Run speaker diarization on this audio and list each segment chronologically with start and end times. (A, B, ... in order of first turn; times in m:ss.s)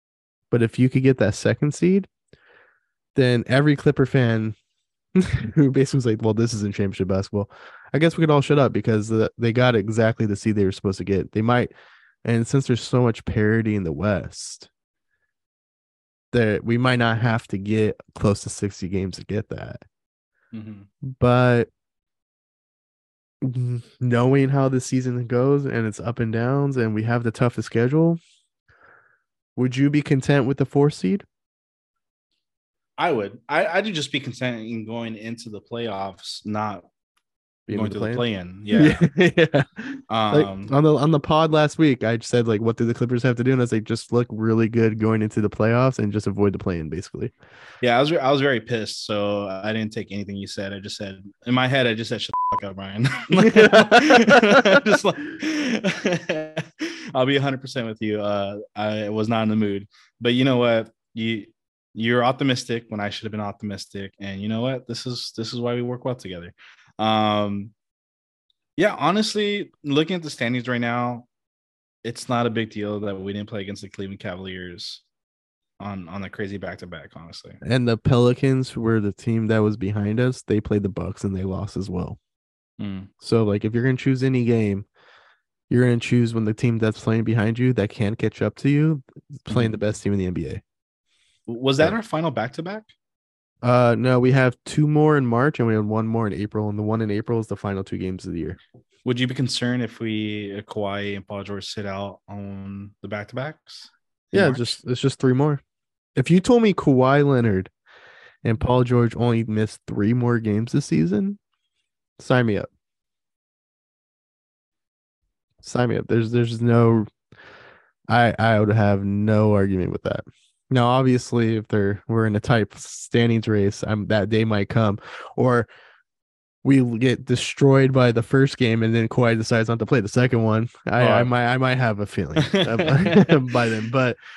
0:00.5-0:02.1 A
0:03.2-0:04.6 A
0:05.2-0:11.7 A
0:12.2-0:14.7 A
0:16.3-0:19.8 A
0:20.5-0:20.9 B
0:21.0-0:21.7 A
0:23.4-0:28.2 A
0:29.6-0:31.2 A
0:33.0-0:36.9 B
0:37.7-0:47.3 A
0:37.7-0:39.0 B
0:40.1-0:40.7 B
0:47.8-1:07.7 B
0:53.4-0:54.8 A
1:08.8-1:11.3 B
1:12.0-1:15.0 B
1:15.8-1:17.6 B
1:17.6-1:22.2 A
1:22.8-1:23.1 B
1:23.2-1:24.9 A
1:25.7-1:30.6 A
1:29.5-1:29.8 B
1:31.5-1:32.9 B
1:33.6-1:38.6 A
1:39.0-1:44.8 B
1:44.3-1:45.6 A
1:46.2-1:47.7 A
1:48.4-1:51.4 A
1:52.2-1:52.7 A
1:55.6-1:57.1 A
1:58.1-2:05.7 A
2:06.6-2:14.2 A
2:11.0-2:11.3 B
2:12.4-2:13.6 B